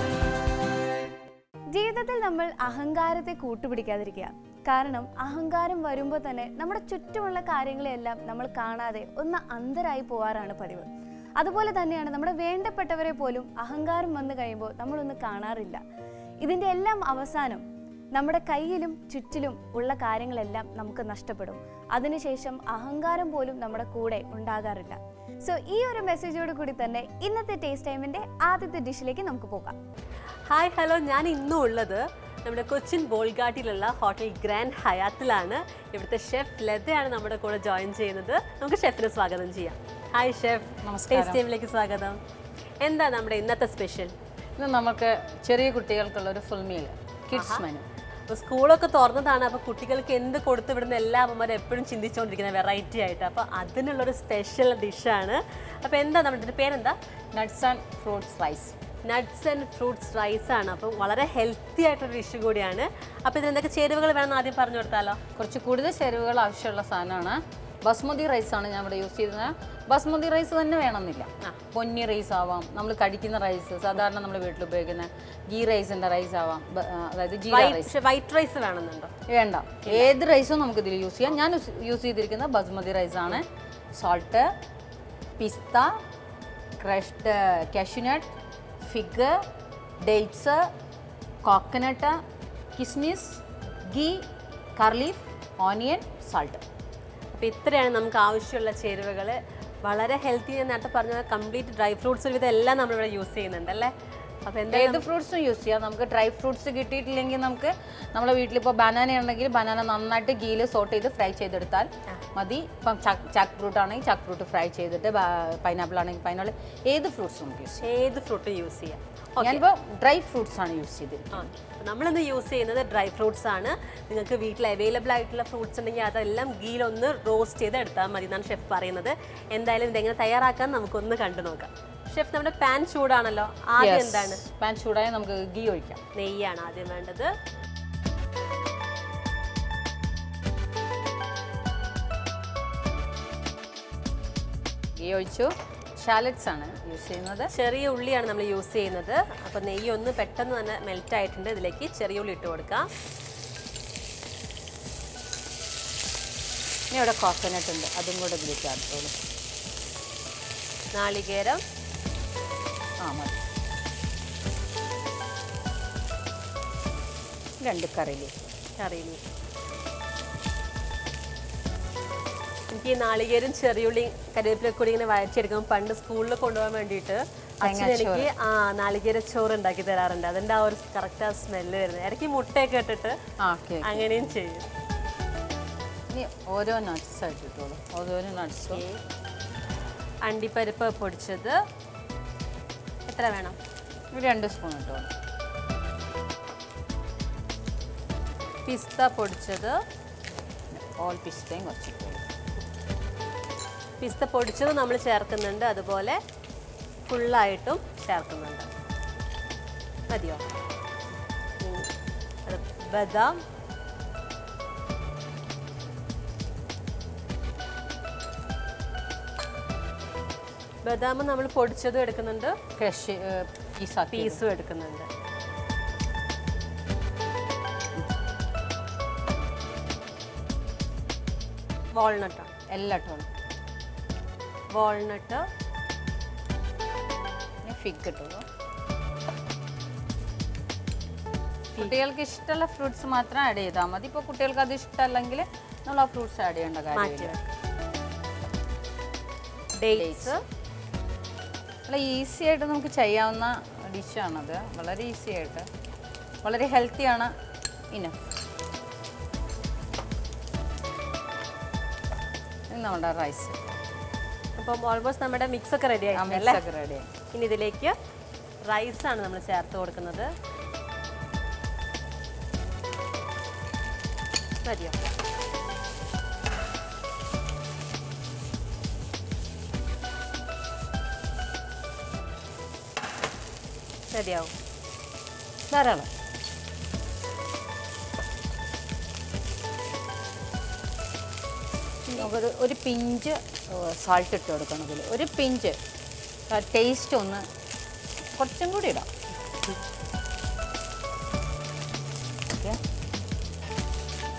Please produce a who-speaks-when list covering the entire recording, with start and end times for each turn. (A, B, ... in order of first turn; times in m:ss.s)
0:01.7-0:10.9 A
0:11.4-0:15.8 A
0:16.4-0:17.6 A
0:18.1-0:29.8 A
0:30.5-0:42.2 B
0:40.8-0:41.4 C
0:42.8-0:44.1 B
0:44.6-0:47.8 C
0:47.3-0:47.6 B
0:48.3-0:57.0 B
0:57.3-0:58.7 C
0:59.0-1:05.2 B
1:05.4-1:17.9 C
1:17.5-1:19.1 B
1:19.3-1:24.5 C
1:19.8-1:20.1 B
1:25.4-1:25.9 C
1:26.8-1:28.3 C
1:28.9-1:29.4 C
1:30.0-1:30.7 C
1:31.4-1:32.2 C
1:32.8-1:34.2 C
1:34.8-1:36.6 C
1:37.3-1:43.9 B
1:44.4-1:45.0 B
1:44.7-1:57.9 C
1:57.8-1:59.6 B
1:59.4-2:01.5 C
2:01.3-2:14.4 B
2:13.8-2:16.0 C
2:16.1-2:17.3 B
2:25.0-2:27.5 C
2:27.5-2:32.9 B
2:36.9-2:39.1 C
2:40.9-2:41.6 B
2:43.0-2:43.4 C
2:47.6-2:48.5 C
2:48.8-2:49.2 B
2:52.7-3:03.2 B
2:57.6-2:58.3 C
3:03.4-3:04.1 C
3:03.8-3:04.7 B
3:06.1-3:08.8 C
3:08.7-3:09.0 B
3:10.2-3:11.6 B
3:13.1-3:13.6 B
3:14.1-3:15.1 C
3:18.6-3:19.8 B
3:20.7-3:22.2 C
3:24.0-3:26.2 B
3:27.1-3:28.7 B
3:30.1-3:30.4 B
3:31.6-3:31.9 B
3:32.4-3:33.4 B
3:40.8-3:42.5 B
3:42.8-3:44.4 C
3:44.1-3:45.1 B
3:51.9-3:52.5 B
3:52.7-3:53.3 C
3:54.7-3:55.4 B
3:57.6-3:58.4 C
4:01.7-4:07.3 C
4:06.9-4:07.5 B
4:09.7-4:10.4 B
4:09.9-4:10.3 C
4:11.9-4:15.7 C
4:16.4-4:17.3 C
4:17.9-4:18.2 C
4:22.7-4:23.8 C
4:24.6-4:26.6 B
4:26.2-4:27.1 C
4:27.3-4:27.9 B
4:28.6-4:30.3 B
4:34.6-4:35.0 B
4:44.1-4:44.5 B
4:45.7-4:46.1 C
4:52.1-4:55.8 C
4:56.5-4:57.4 C
4:58.4-4:59.1 C
5:02.5-5:02.8 C